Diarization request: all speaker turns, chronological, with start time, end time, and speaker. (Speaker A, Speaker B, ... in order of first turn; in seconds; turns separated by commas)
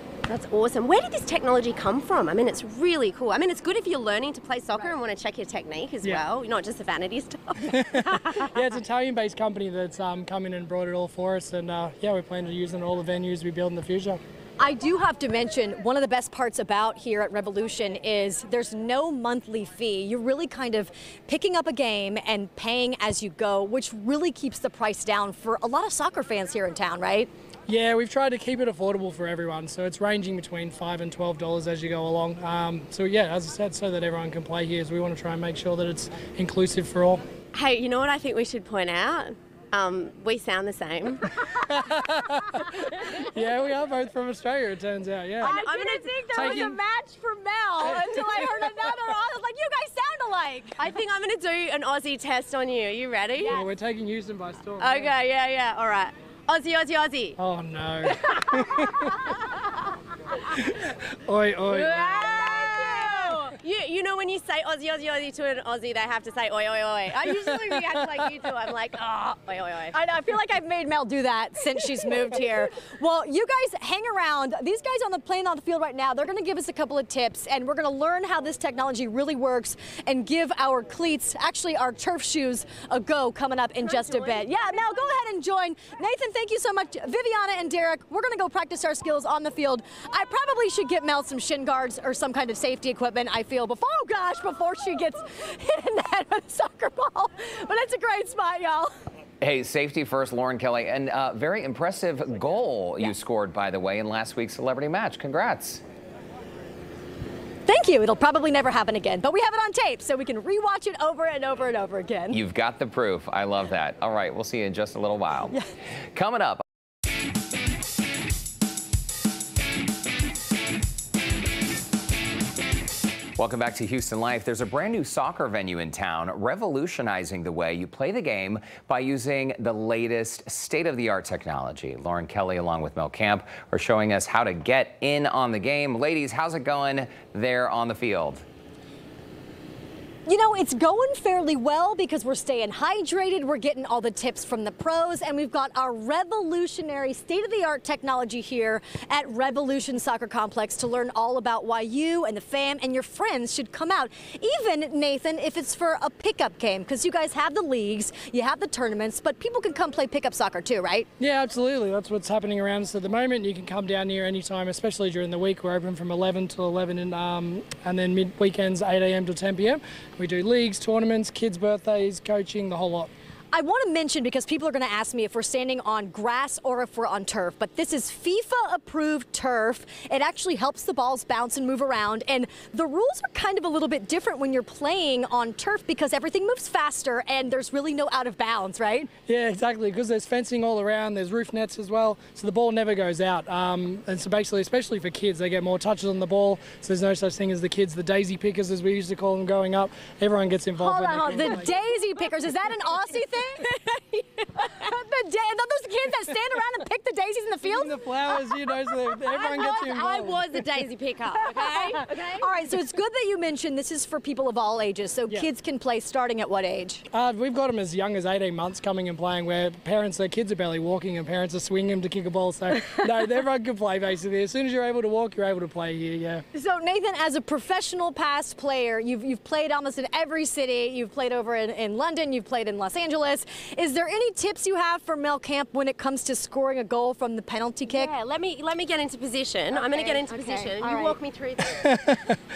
Speaker A: 0.3-8.5, Speaker B: 7.7-14.2, Speaker C: 14.6-27.3, Speaker B: 27.7-37.2, Speaker A: 37.5-41.7, Speaker B: 41.5-45.5, Speaker A: 45.4-46.7, Speaker C: 45.4-50.8, Speaker B: 46.3-46.8, Speaker B: 47.8-48.7, Speaker A: 50.8-53.6, Speaker B: 53.5-55.1, Speaker A: 54.8-57.4, Speaker B: 57.4-59.2, Speaker A: 58.0-59.6, Speaker B: 60.5-62.3, Speaker A: 61.7-69.9, Speaker C: 62.0-63.3, Speaker B: 67.3-67.7, Speaker C: 69.9-98.9, Speaker A: 83.8-84.8, Speaker D: 99.4-105.8, Speaker C: 107.7-112.4, Speaker D: 112.3-115.6, Speaker D: 116.1-116.6, Speaker D: 123.4-138.4, Speaker C: 140.2-161.1, Speaker B: 161.2-173.1, Speaker C: 173.5-189.1, Speaker B: 189.3-201.7, Speaker C: 200.8-208.4, Speaker B: 207.6-210.5, Speaker A: 209.3-212.5, Speaker C: 211.9-217.0, Speaker B: 217.1-226.4, Speaker C: 226.5-238.1, Speaker A: 237.9-241.8, Speaker C: 239.7-241.2, Speaker B: 241.7-242.4